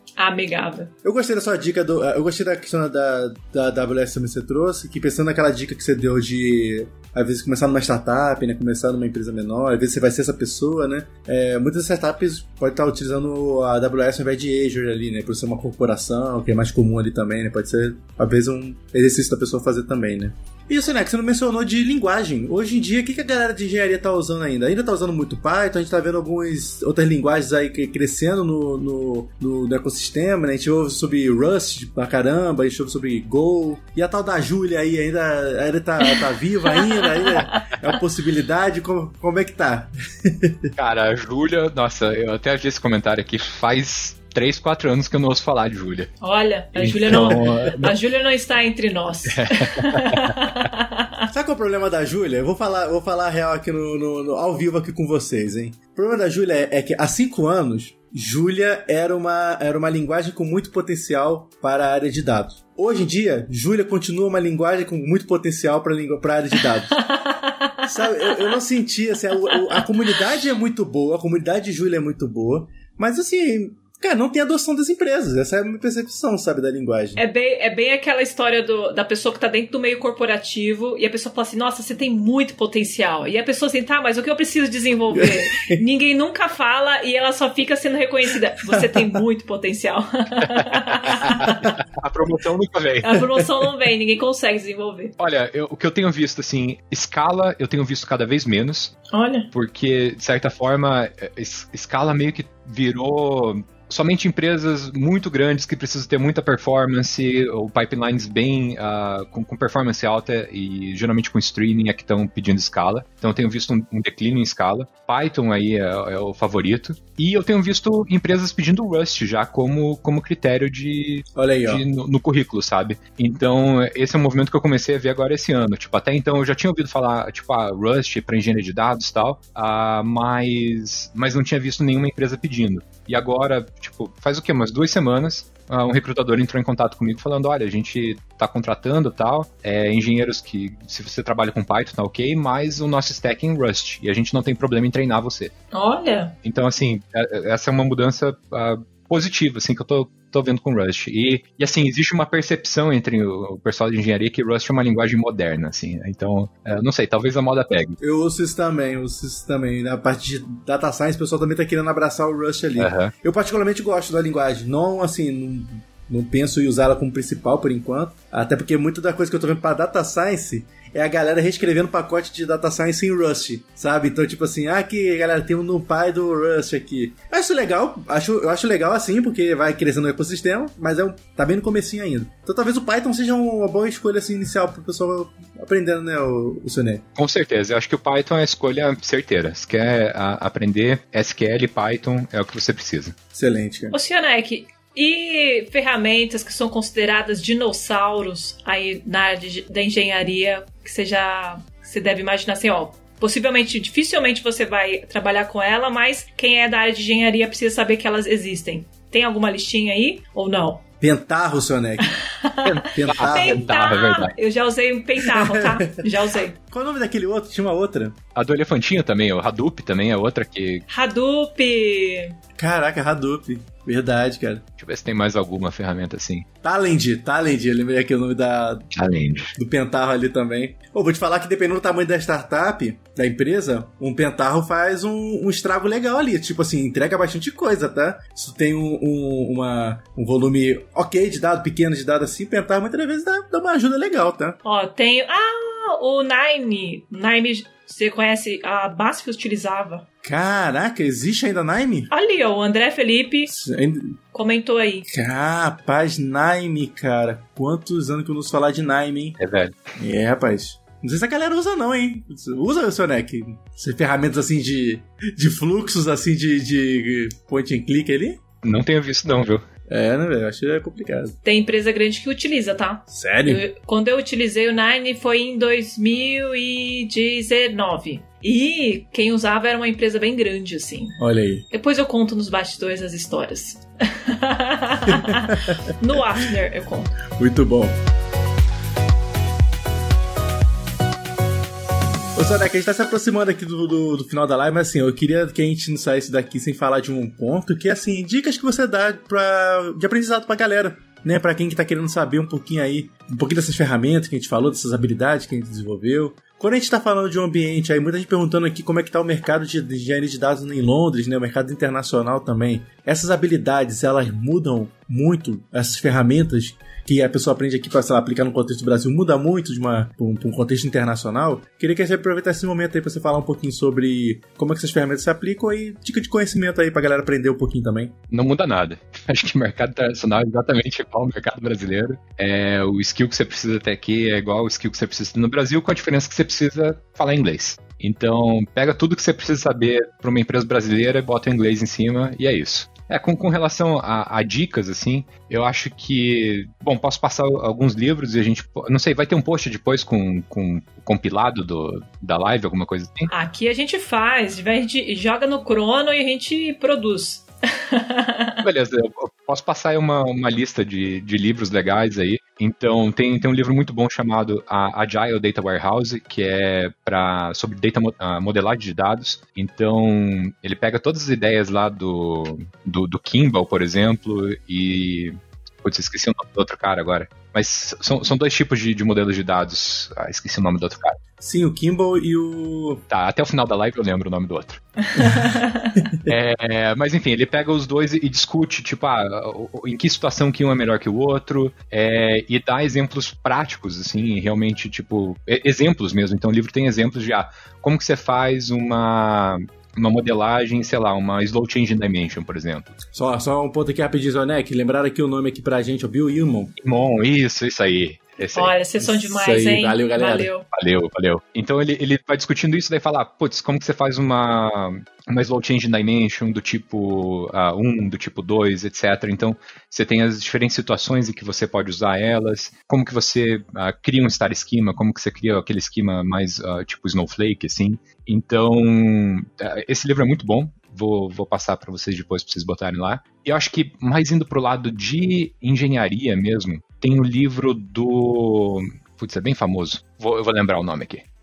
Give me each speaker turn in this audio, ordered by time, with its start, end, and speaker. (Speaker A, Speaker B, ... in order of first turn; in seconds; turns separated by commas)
Speaker A: 0.2-0.9, Speaker B: 1.0-40.7, Speaker A: 36.8-37.7, Speaker C: 40.8-46.1, Speaker A: 46.2-51.0, Speaker C: 46.8-48.0, Speaker C: 49.3-50.4, Speaker B: 51.3-67.0, Speaker A: 67.1-68.4, Speaker B: 67.8-77.2, Speaker A: 77.2-91.7, Speaker B: 85.1-85.8, Speaker B: 88.7-89.0, Speaker C: 90.5-93.2, Speaker A: 93.0-95.1, Speaker C: 95.2-99.0, Speaker A: 99.1-99.5, Speaker C: 99.5-145.5, Speaker B: 121.4-121.8, Speaker A: 145.7-146.3, Speaker C: 146.4-158.0, Speaker B: 158.0-187.1, Speaker C: 162.8-163.1, Speaker C: 187.2-193.2, Speaker B: 193.3-194.0, Speaker A: 193.9-210.8, Speaker B: 211.0-212.2, Speaker A: 212.0-216.6, Speaker C: 212.7-214.3, Speaker B: 212.9-213.7, Speaker B: 215.3-215.9, Speaker B: 216.7-218.2, Speaker C: 218.4-220.8, Speaker A: 220.9-222.4, Speaker B: 222.6-224.6, Speaker C: 224.8-226.5, Speaker B: 226.6-228.9, Speaker C: 228.9-229.6, Speaker B: 229.6-244.6, Speaker A: 244.6-250.1, Speaker B: 250.2-252.1, Speaker A: 252.1-253.5, Speaker B: 253.5-254.2, Speaker A: 254.3-255.1, Speaker B: 255.1-259.4, Speaker C: 259.4-259.9, Speaker B: 260.0-268.4, Speaker C: 268.6-269.6, Speaker B: 269.9-271.4, Speaker A: 271.4-281.2, Speaker B: 273.1-273.6, Speaker B: 281.2-281.7, Speaker A: 281.7-287.2, Speaker B: 285.2-285.8, Speaker B: 287.4-287.9, Speaker B: 292.4-328.1, Speaker C: 328.3-353.3, Speaker A: 353.3-358.6, Speaker C: 358.6-381.2, Speaker B: 381.4-383.0, Speaker C: 383.1-384.8, Speaker A: 385.2-385.9, Speaker B: 386.0-386.3, Speaker C: 386.2-403.0, Speaker B: 403.1-406.7, Speaker C: 406.8-408.8, Speaker A: 408.6-410.6, Speaker B: 409.0-410.5, Speaker C: 410.7-441.3